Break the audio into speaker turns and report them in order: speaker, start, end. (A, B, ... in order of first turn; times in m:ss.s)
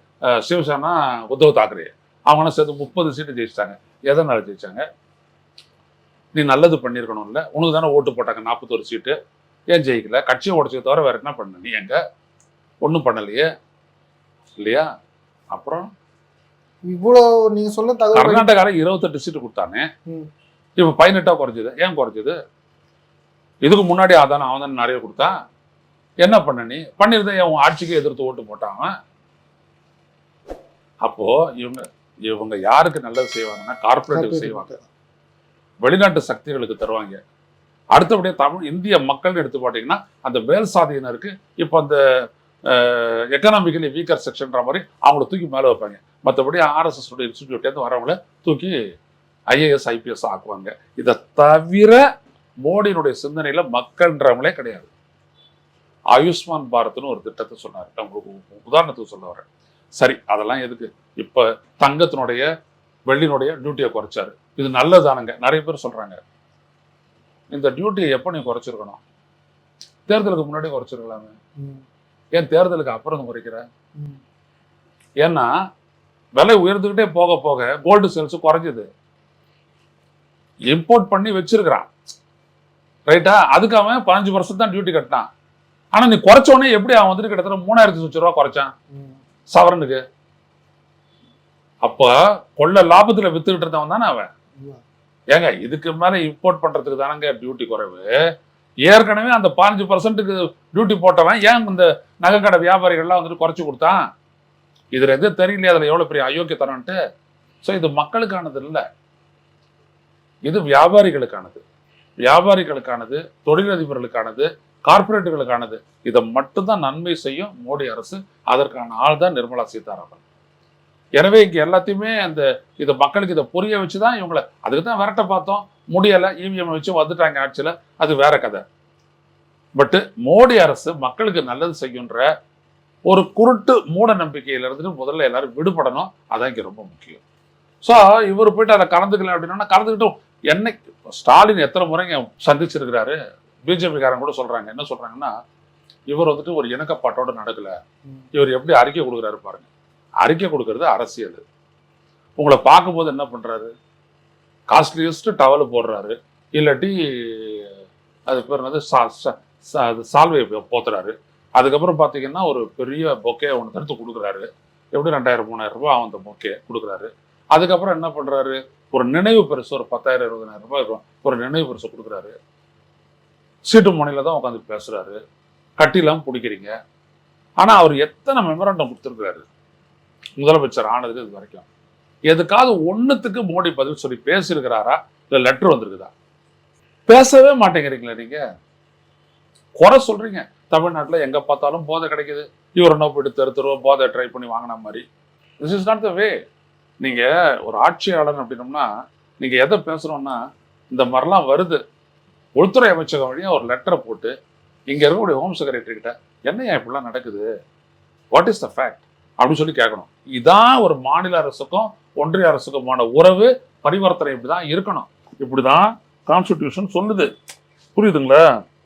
0:00.3-0:04.8 A
0:06.4-0:09.2 A
0:09.7-0:12.0 A
0:12.8-0:13.5 A
0:14.6-0:14.9 A
0:15.5-0:15.9 A
0:16.9-0:18.5 B
0:18.2-0:19.9 A
0:20.8-0:22.4 A
0:23.6-0:25.3 A
0:26.2-0:28.9 A
0:31.0-0:34.7 A
0:34.1-0:34.9 B
0:35.8-0:37.2 A
0:37.9-0:42.0 A
0:42.7-0:48.8 A
0:49.5-0:52.0 A
0:52.6-0:54.9 A
0:56.1-0:59.5 A
1:00.0-1:02.5 A
1:03.1-1:06.2 A
1:07.5-1:09.0 A
1:10.1-1:11.4 A
1:11.6-1:11.8 B
1:12.4-1:13.6 A
1:15.2-1:15.5 A
1:16.4-1:18.9 A
1:20.7-1:21.9 A
1:23.1-1:25.3 A
1:25.9-1:28.7 A
1:28.9-1:29.2 B
1:29.5-1:30.0 A
1:31.8-1:34.3 A
1:35.3-1:38.1 A
1:38.9-1:44.0 A
1:44.9-1:47.0 A
1:47.6-1:48.8 A
1:50.5-1:51.6 A
1:52.2-2:00.2 A
2:01.2-2:08.6 A
2:09.8-2:12.3 A
2:13.1-2:17.2 A
2:17.8-2:25.3 A
2:26.1-2:27.8 A
2:28.3-2:29.7 A
2:30.2-2:31.4 A
2:32.4-2:33.7 A
2:34.7-2:37.8 A
2:38.3-2:52.4 A
2:53.6-2:55.2 A
2:55.8-2:56.7 A
2:57.6-2:59.5 A
3:00.4-3:01.7 A
3:02.3-3:06.1 A
3:07.1-3:08.4 A
3:09.8-3:15.1 A
3:15.6-3:16.4 A
3:17.0-3:18.9 A
3:19.4-3:20.4 A
3:20.9-3:21.8 A
3:22.6-3:24.3 A
3:24.9-3:27.5 A
3:28.3-3:37.3 A
3:38.0-3:38.4 A